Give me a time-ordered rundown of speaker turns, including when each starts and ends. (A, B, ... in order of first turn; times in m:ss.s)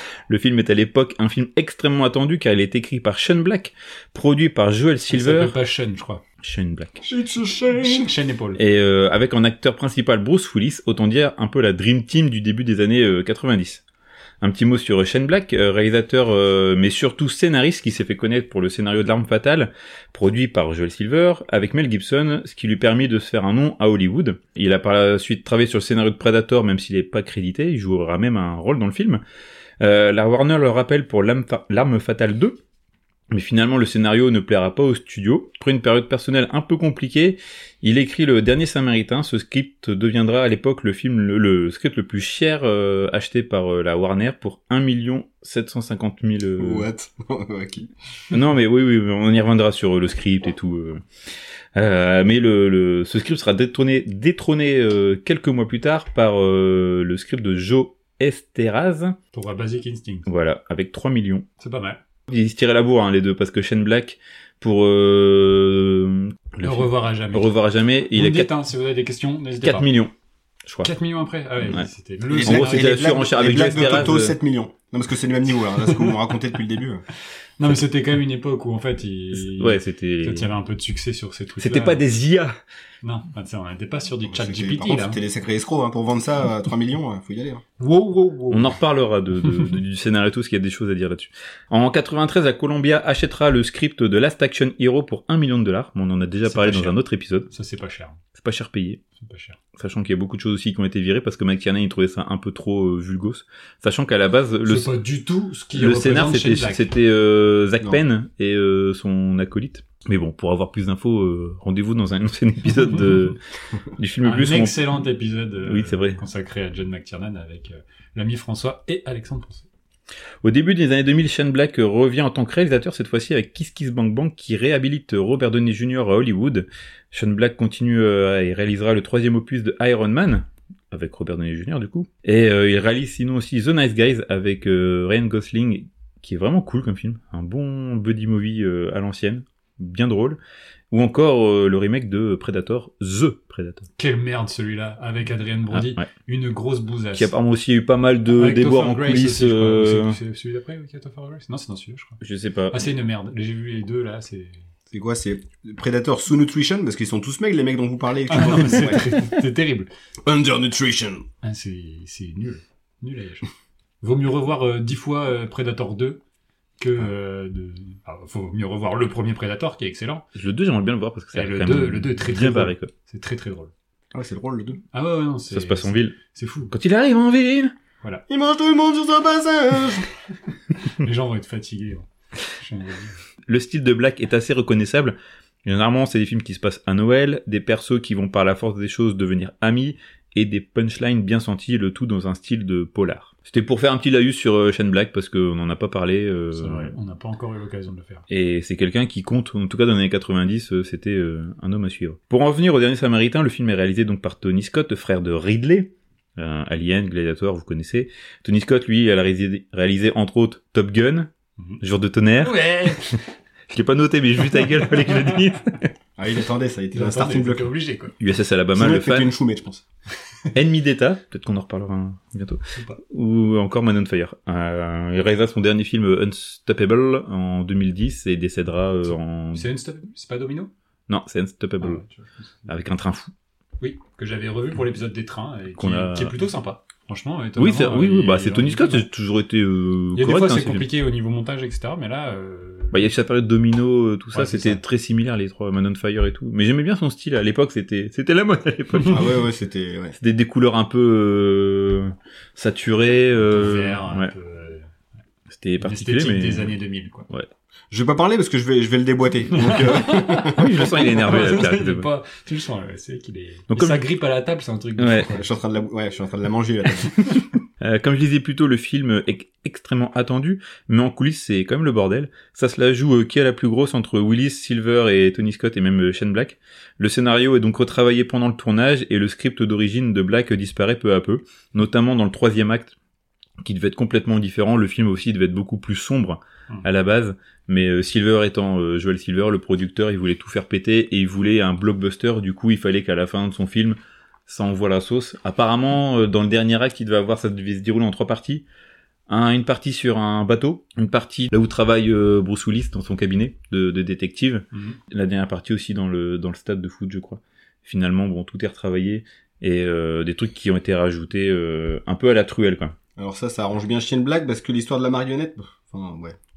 0:00.3-0:05.5 A
0:05.1-0:06.2 B
0:06.4-0:07.0 A
0:07.0-0:08.1 C
0:07.6-0:08.6 B
0:08.5-0:13.8 A
0:14.4-0:29.2 A
0:29.8-0:32.6 A
0:33.3-0:46.9 A
0:46.6-0:47.9 C
0:48.3-0:51.0 A
0:51.7-0:59.2 A
0:59.3-1:00.3 B
1:00.3-1:01.5 A
1:01.6-1:02.0 B
1:02.3-1:08.5 A
1:06.6-1:07.5 B
1:08.1-1:09.9 B
1:09.6-1:10.1 A
1:10.6-1:10.9 A
1:10.8-1:14.2 B
1:11.7-1:14.4 A
1:12.3-1:17.0 C
1:15.8-1:16.2 B
1:17.6-1:22.0 B
1:19.3-1:20.5 A
1:21.6-1:22.6 A
1:23.0-1:25.2 B
1:24.3-1:27.6 C
1:27.8-1:28.8 B
1:28.5-1:37.5 A
1:36.4-1:37.0 B
1:37.5-1:38.2 B
1:38.3-1:39.0 A
1:39.2-1:39.6 B
1:39.7-1:44.9 A
1:44.6-1:46.9 B
1:45.7-1:53.4 A
1:52.8-1:53.3 B
1:53.9-1:54.8 A
1:54.2-1:59.7 B
1:55.6-1:56.2 A
2:00.4-2:20.4 A
2:20.9-2:23.9 A
2:24.0-2:27.3 B
2:25.7-2:26.0 A
2:27.1-2:30.2 A
2:28.4-2:32.2 B
2:32.2-2:32.9 A
2:32.7-2:34.6 B
2:34.9-2:39.1 C
2:38.3-2:39.9 B
2:40.2-2:41.2 C
2:41.4-2:43.5 B
2:44.0-2:46.2 B
2:46.8-2:50.2 B
2:50.3-2:52.9 A
2:51.3-2:53.7 B
2:54.1-2:54.8 C
2:54.9-2:56.7 B
2:55.5-2:56.2 A
2:56.7-2:57.7 A
2:58.3-3:00.1 C
3:00.8-3:03.2 B
3:03.5-3:16.9 A
3:16.5-3:18.2 B
3:18.3-3:33.2 A
3:32.4-3:33.2 B
3:33.7-3:35.9 A
3:36.2-3:37.7 C
3:36.9-3:38.1 B
3:38.2-3:39.3 A
3:38.7-3:39.8 C
3:40.5-3:49.7 A
3:49.5-3:50.7 B
3:51.1-3:52.0 A
3:51.8-3:52.3 B
3:52.7-3:53.3 A
3:53.8-3:59.0 B
3:55.7-3:56.4 A
3:57.6-4:00.8 A
4:00.1-4:03.1 B
4:02.9-4:09.3 A
4:04.3-4:04.8 B
4:09.1-4:10.2 C
4:10.2-4:14.3 A
4:13.5-4:14.9 B
4:15.5-4:16.7 A
4:15.8-4:17.3 B
4:17.9-4:20.9 C
4:19.5-4:25.4 B
4:20.4-4:22.1 A
4:23.7-4:24.0 A
4:25.0-4:25.3 A
4:25.3-4:27.4 C
4:27.8-4:42.9 A
4:43.6-4:58.6 A
4:59.3-5:13.0 A
5:04.7-5:05.0 B
5:13.2-5:16.4 C